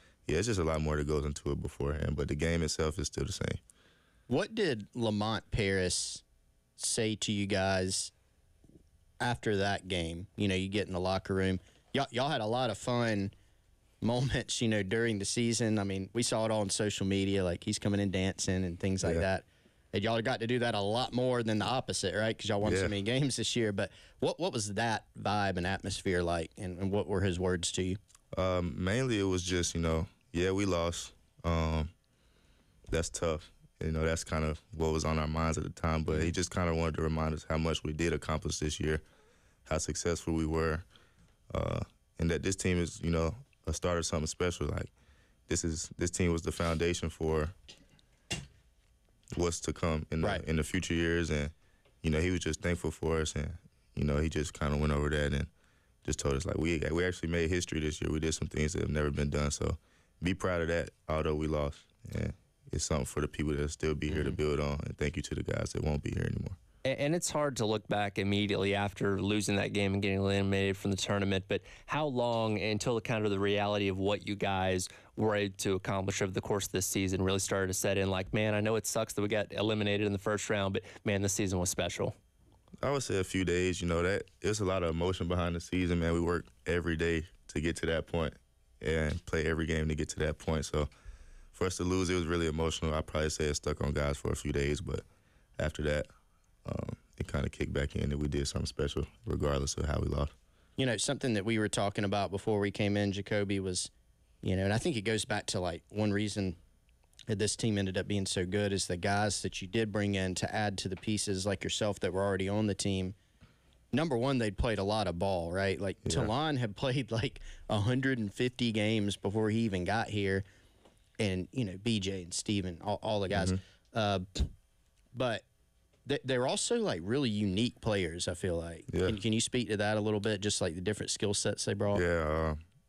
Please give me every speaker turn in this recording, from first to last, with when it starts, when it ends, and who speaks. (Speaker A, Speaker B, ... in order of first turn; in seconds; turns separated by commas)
Speaker A: 0.2-3.6, Speaker B: 4.3-6.2, Speaker B: 6.8-8.1, Speaker B: 9.2-13.3, Speaker B: 14.0-28.0, Speaker A: 22.6-22.9, Speaker A: 28.3-31.9, Speaker A: 32.9-39.0, Speaker A: 39.6-40.8, Speaker A: 41.5-44.9, Speaker A: 45.5-47.5, Speaker A: 49.3-55.5, Speaker A: 56.0-66.6, Speaker B: 64.1-64.4, Speaker C: 66.8-82.2, Speaker A: 82.8-90.9, Speaker A: 91.5-95.0, Speaker A: 95.6-96.1, Speaker A: 96.6-100.3, Speaker B: 100.8-103.9, Speaker B: 104.4-106.6, Speaker B: 107.3-113.2, Speaker B: 113.9-120.4, Speaker A: 116.0-116.3, Speaker B: 121.2-124.5, Speaker B: 125.1-125.4, Speaker B: 126.0-132.0, Speaker A: 128.9-129.2, Speaker A: 131.9-132.6